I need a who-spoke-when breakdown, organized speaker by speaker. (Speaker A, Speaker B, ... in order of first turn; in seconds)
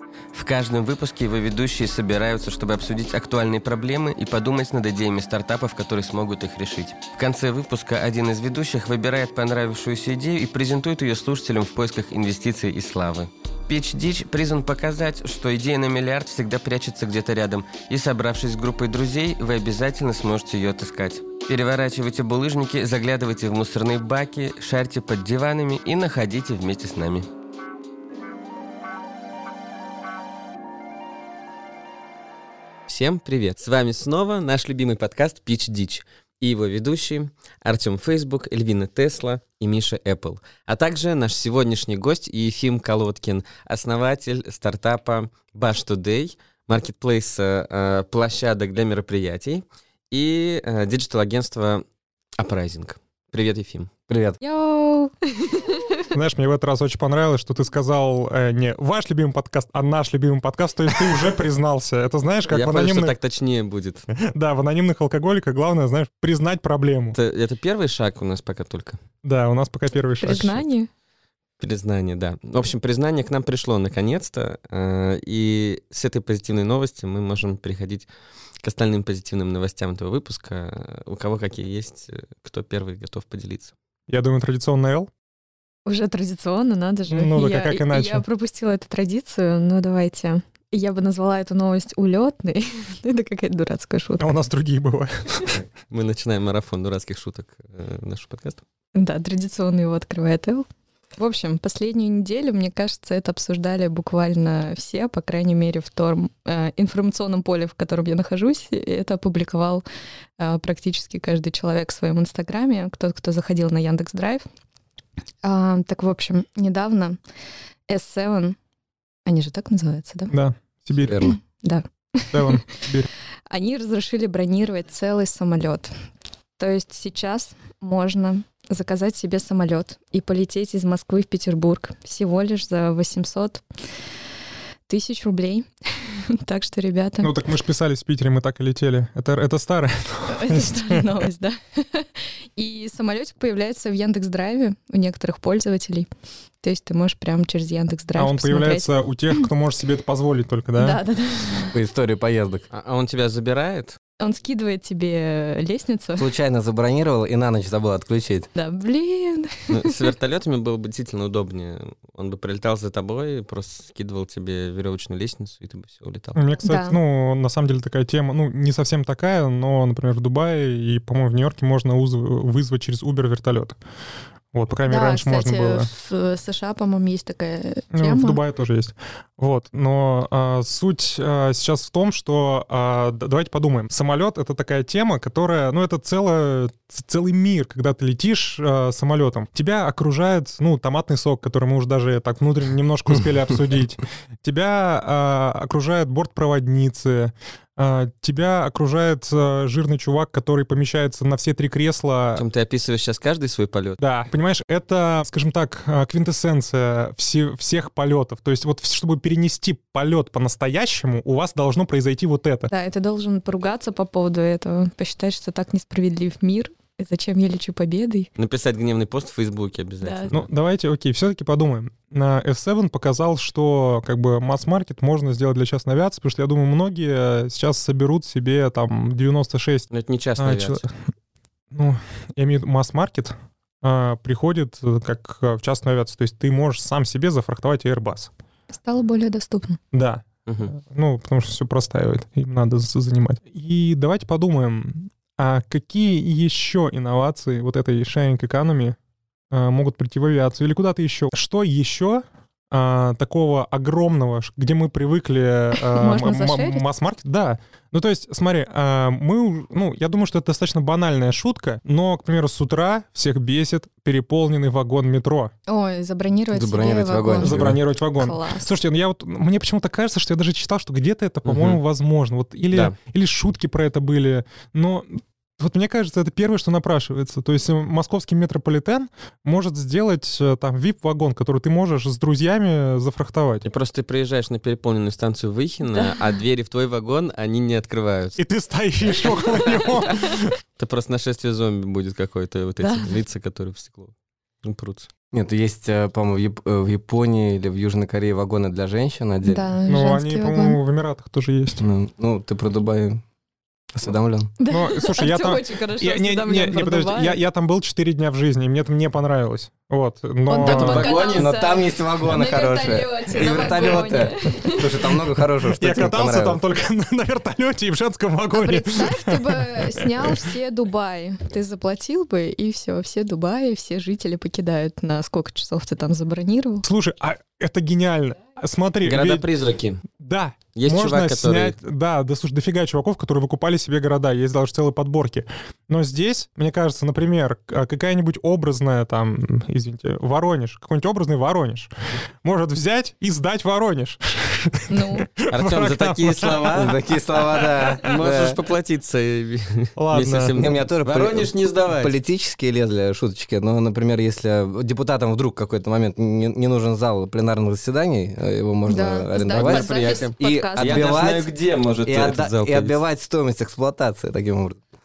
Speaker A: 0.3-27.3
Speaker B: 32.9-51.8, 52.4-53.9, 62.5-64.1, 67.1-69.0, 71.6-78.1, 78.6-83.7, 95.9-98.6, 152.7-154.0, 159.7-166.4, 202.3-204.0, 218.4-220.5, 229.9-230.8, 240.5-240.7, 271.4-271.8, 283.6-288.4, 289.1-290.1, 290.8-295.1, 310.6-311.5, 329.0-330.0, 330.7-331.8, 345.5-347.0, 347.8-352.1, 359.5-363.0
Speaker C: 54.1-54.4, 121.0-121.4, 151.7-152.7, 156.2-158.5, 266.5-267.8, 295.3-299.6, 301.8-303.2, 304.0-304.5, 310.9-316.6, 346.7-348.6, 350.5-361.5, 362.1-364.8
Speaker D: 54.4-56.1, 70.2-70.9, 85.8-94.3, 98.9-100.7, 101.2-109.8, 110.4-114.5, 115.4-117.2, 117.9-118.6, 119.2-120.3, 121.2-122.6, 123.5-125.9, 126.6-133.6, 134.9-137.3, 140.3-146.1, 146.6-149.5, 150.8-151.8, 154.2-156.3, 158.6-160.0, 166.6-167.0, 174.8-178.4, 212.7-218.3, 220.0-220.3, 238.7-239.8, 255.7-256.9, 265.7-267.6, 268.2-268.7, 292.8-293.1, 299.4-300.8, 304.6-307.4, 310.5-315.2, 318.5-326.9, 344.9-345.3, 358.9-361.2
Speaker E: 56.1-63.1, 64.2-67.2, 69.2-70.6, 84.1-85.1, 87.1-88.2, 94.2-95.5, 120.3-121.2, 122.3-123.1, 137.2-141.0, 148.2-151.0, 166.3-173.8, 174.5-175.9, 177.9-202.4, 204.0-212.7, 220.3-230.9, 231.7-238.3, 239.9-248.9, 249.5-265.5, 267.4-283.7, 288.4-290.6, 299.9-301.8, 304.7-311.1, 315.7-320.5, 326.8-329.4, 330.2-341.9, 342.4-346.8, 350.0-350.6